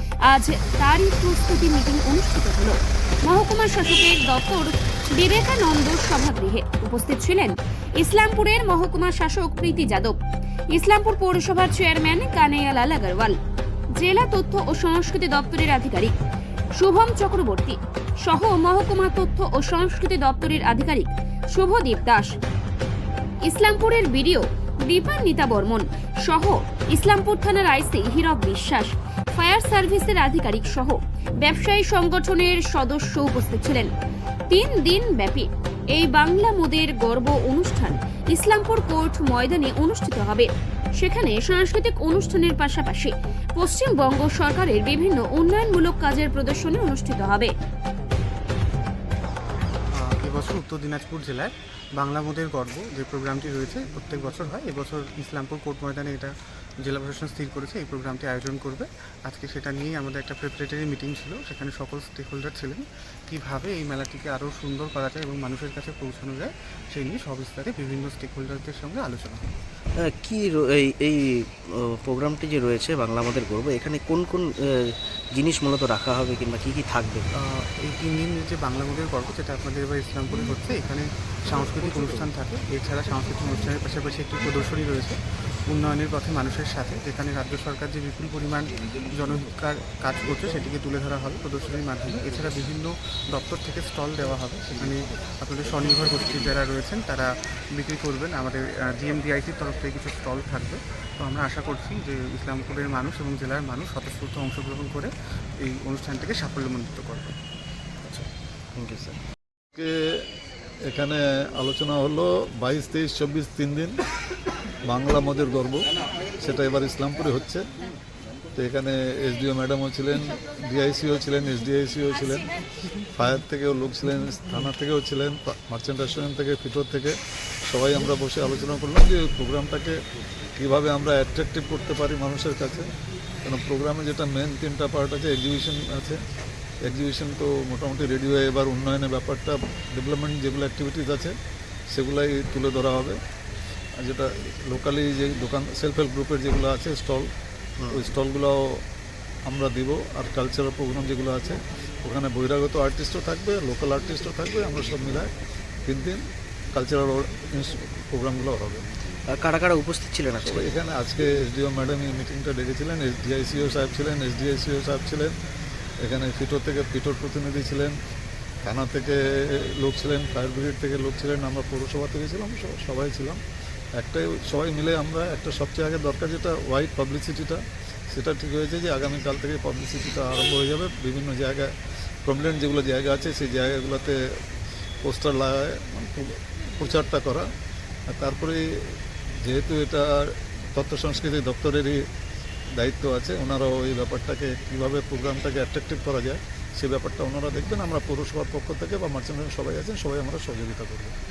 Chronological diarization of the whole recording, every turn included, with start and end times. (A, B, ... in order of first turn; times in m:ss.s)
0:00.3-0:10.2 A
0:10.7-0:13.4 A
0:13.9-0:16.1 A
0:16.8-0:22.3 A
0:23.4-0:33.9 A
0:34.5-0:47.5 A
0:50.0-0:56.3 B
0:56.8-1:09.4 B
1:10.1-1:17.2 C
1:17.4-1:25.2 B
1:25.7-1:45.1 B
1:45.6-1:47.3 B
1:48.0-1:49.2 C
1:49.7-1:50.2 D
1:50.9-1:54.0 D
1:54.8-1:55.8 D
1:56.4-1:57.6 D
1:58.5-2:02.5 D
2:03.1-2:07.2 D
2:07.7-2:10.0 D
2:10.6-2:12.9 D
2:13.4-2:16.2 D
2:16.8-2:21.3 D
2:21.9-2:23.2 D
2:24.0-2:27.3 D
2:27.8-2:28.1 C
2:27.9-2:28.8 D
2:29.5-2:35.3 D
2:35.8-2:38.8 D
2:39.3-2:40.7 C
2:40.4-2:45.3 D
2:46.0-2:47.9 D
2:48.6-2:53.4 D
2:54.0-3:01.7 D
3:02.2-3:04.2 D
3:05.0-3:07.5 D
3:08.1-3:08.6 D
3:09.4-3:12.0 D
3:12.8-3:21.1 D